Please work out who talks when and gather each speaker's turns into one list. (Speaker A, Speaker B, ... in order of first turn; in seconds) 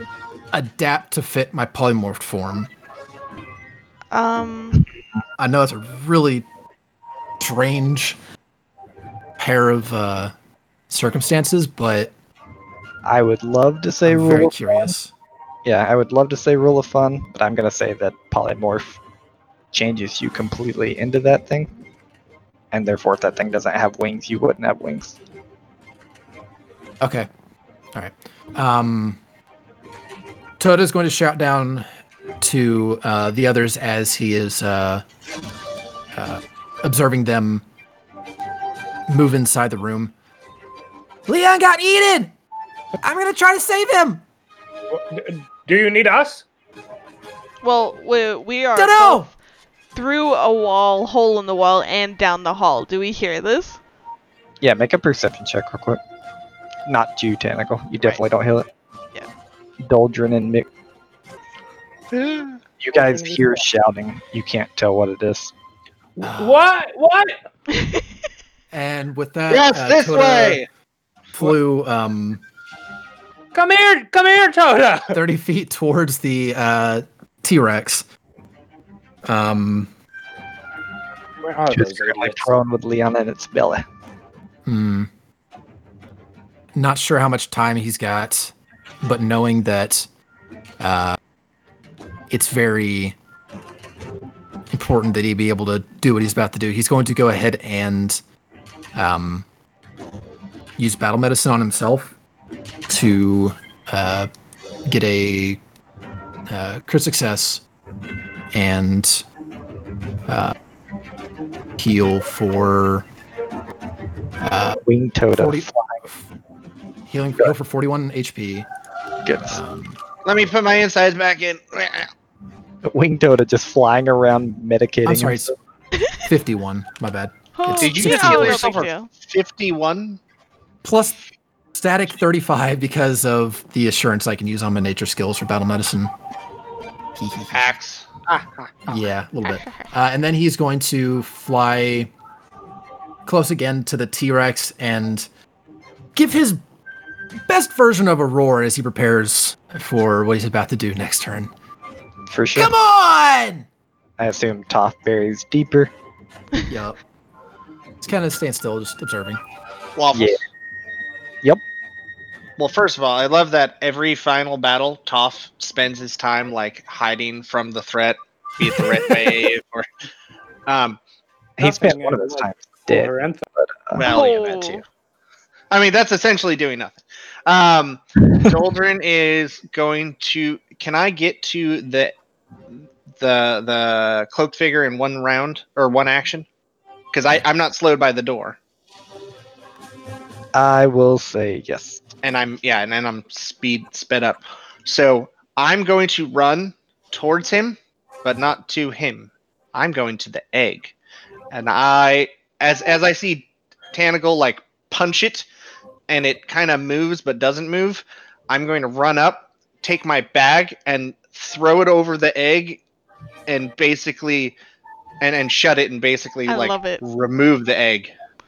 Speaker A: 0.5-2.7, 5.4-6.5, 7.4-8.2, 9.4-10.3, 10.9-12.1, 14.1-15.1, 27.0-27.3, 27.9-29.2, 30.6-31.9, 32.4-35.0, 36.1-37.6, 39.1-40.1, 41.3-42.3, 43.0-44.2, 48.8-49.3, 66.2-66.7, 68.7-70.6, 71.3-72.4, 75.1-78.1, 79.2-79.9, 84.7-85.1, 86.7-90.1, 90.8-91.2, 92.3-93.2, 94.7-98.2, 98.9-99.5, 100.8-102.2, 102.9-104.3, 104.9-105.6, 106.5-107.6, 108.5-109.2, 110.3-110.5, 111.8-113.1, 114.4-114.8, 115.4-116.3, 117.1-118.7, 119.5-120.0, 125.1-125.5, 126.2-128.7, 130.8-131.2, 131.7-136.1, 137.2-137.7, 138.9-142.1, 143.3-145.3, 146.2-146.6, 147.5-151.5, 152.6-153.7, 156.7-157.0, 158.0-159.4
Speaker B: 4.1-4.9, 47.6-49.3, 49.9-53.8, 67.8-68.0, 127.6-129.1, 139.4-139.9, 174.0-174.8, 216.5-217.0
Speaker C: 13.1-14.9, 15.7-19.0, 19.7-21.7, 22.7-25.2, 54.6-56.0, 56.9-58.7, 59.8-60.7, 62.8-65.5, 81.7-83.8, 114.8-116.0, 119.3-119.6, 122.8-125.5, 152.3-152.7, 154.2-155.9, 160.1-160.4, 171.6-174.1, 190.5-192.0
Speaker D: 44.9-46.5, 62.9-63.6, 66.2-67.4, 73.5-75.2, 81.4-82.5, 171.6-173.4
Speaker E: 62.1-62.5, 69.5-70.7, 120.2-122.1, 127.8-130.2, 137.5-138.4, 160.0-160.4, 162.6-169.9, 170.7-171.0, 174.0-174.8, 175.7-182.1, 183.2-186.5, 187.1-188.6, 192.2-200.9, 201.5-205.5, 206.1-212.8, 213.5-214.6, 215.2-218.1